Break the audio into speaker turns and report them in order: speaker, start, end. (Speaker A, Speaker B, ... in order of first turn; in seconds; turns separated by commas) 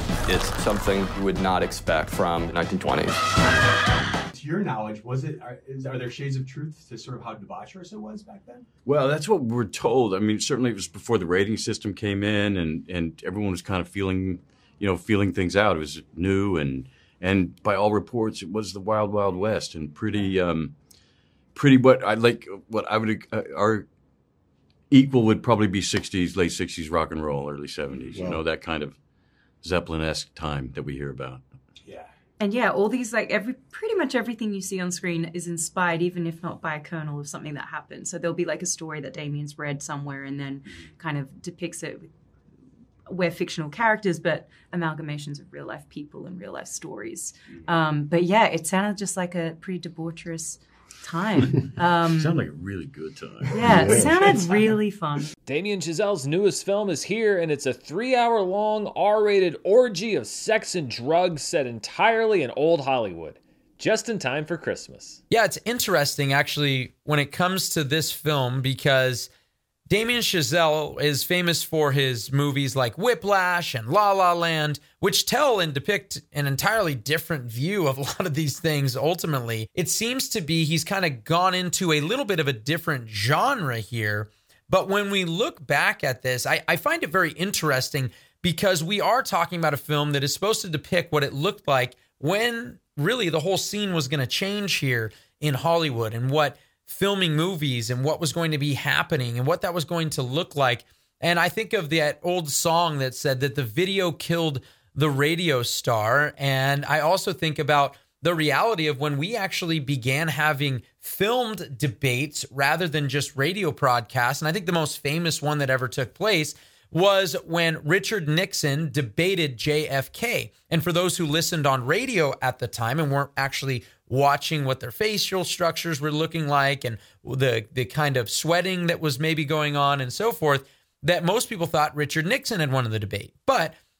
Speaker A: 0.2-3.2, Speaker B: 4.3-8.7, Speaker C: 8.8-20.7, Speaker C: 21.5-23.9, Speaker C: 24.9-29.0, Speaker C: 29.6-31.4, Speaker D: 32.4-42.1, Speaker D: 43.1-52.4, Speaker C: 52.0-54.3, Speaker D: 53.5-55.3, Speaker E: 55.5-65.2, Speaker F: 65.3-69.3, Speaker F: 69.9-133.8